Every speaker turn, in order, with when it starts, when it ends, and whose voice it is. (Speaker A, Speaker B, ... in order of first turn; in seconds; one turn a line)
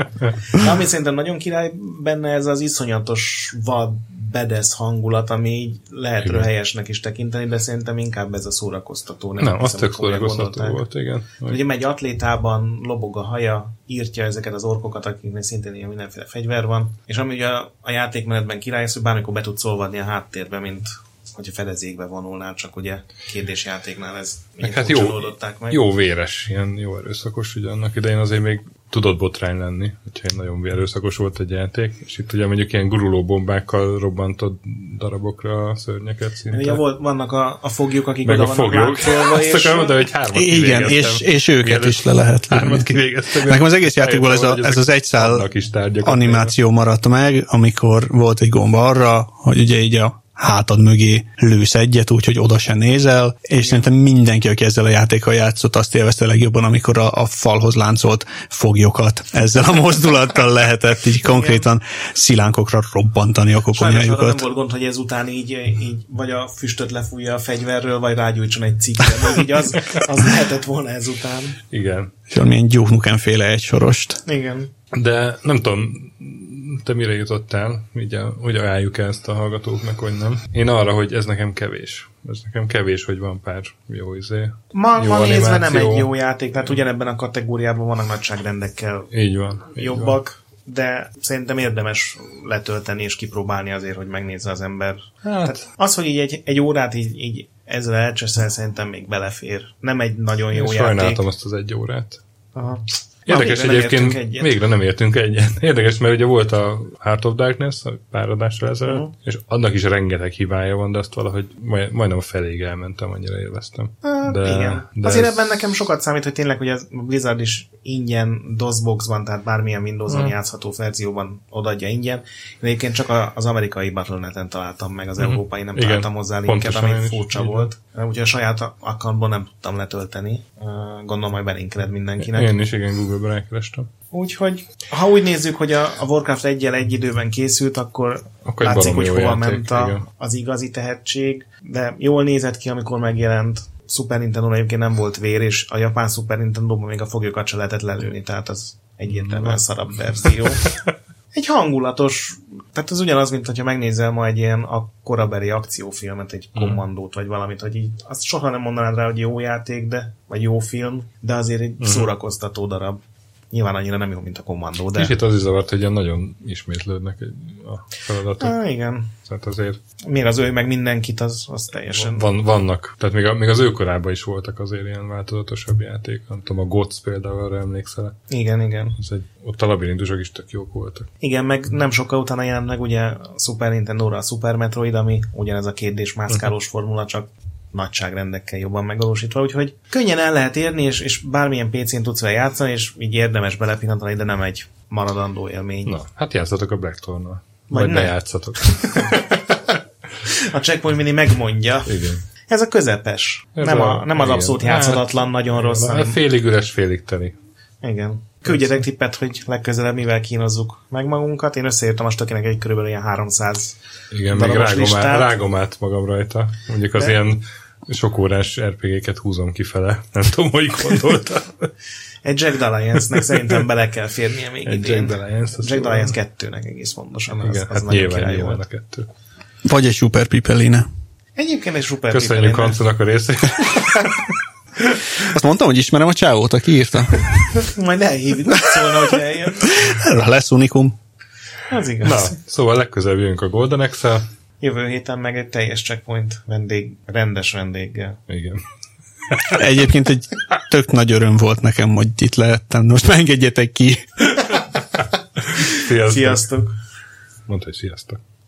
Speaker A: 0.5-10.8
Speaker B: 6.2-6.5
Speaker B: 9.4-11.6
Speaker A: 11.4-25.8
Speaker B: 24.6-36.8
Speaker A: 36.5-40.1
Speaker B: 38.2-46.5
Speaker C: 40.3-42.9
Speaker C: 43.4-45.5
Speaker C: 46.0-64.4
Speaker A: 53.6-53.9
Speaker A: 61.2-61.7
Speaker A: 63.7-71.6
Speaker B: 71.7-72.1
Speaker C: 72.3-74.2
Speaker A: 74.2-74.7
Speaker B: 74.9-86.1
Speaker A: 84.7-89.1
Speaker B: 89.1-90.2
Speaker A: 89.7-101.2
Speaker B: 95.2-95.6
Speaker B: 100.5-102.2
Speaker A: 102.5-104.6
Speaker B: 103.2-115.5
Speaker A: 108.8-109.1
Speaker A: 114.0-132.5
Speaker B: 120.1-120.3
Speaker B: 125.2-127.7
Speaker B: 132.2-133.9
Speaker A: 134.1-150.7
Speaker B: 138.4-140.0
Speaker B: 149.1-149.6
Speaker A: 151.3-163.0
Speaker B: 156.5-156.8
Speaker B: 161.8-162.1
Speaker A: 163.5-165.2
Speaker B: 164.9-168.6
Speaker A: 168.4-169.1
Speaker B: 169.2-169.8
Speaker A: 170.1-172.3
Speaker B: 171.9-178.2
Speaker A: 178.3-179.0
Speaker B: 179.0-181.1
Speaker A: 181.2-196.0
Speaker B: 195.8-199.6
Speaker A: 197.7-198.2
Speaker A: 198.7-199.1
Speaker A: 200.2-206.2
Speaker B: 201.8-202.2
Speaker B: 203.6-207.4
Speaker A: 207.8-213.8
Speaker B: 208.5-208.8
Speaker B: 214.1-221.7
Speaker A: 214.3-215.3
Speaker A: 216.9-217.2
Speaker A: 222.2-228.6
Speaker B: 224.6-226.1
Speaker B: 227.4-229.1
Speaker C: 229.6-230.9
Speaker A: 231.3-232.8
Speaker B: 232.1-234.3
Speaker C: 235.2-237.3
Speaker A: 237.6-239.8
Speaker C: 239.6-241.0
Speaker A: 241.7-242.3
Speaker B: 242.0-244.3
Speaker A: 244.6-248.2
Speaker B: 248.3-248.6
Speaker B: 249.3-249.6
Speaker C: 249.6-254.0
Speaker B: 254.4-255.0
Speaker B: 255.5-256.4
Speaker A: 255.8-256.7
Speaker B: 257.5-258.2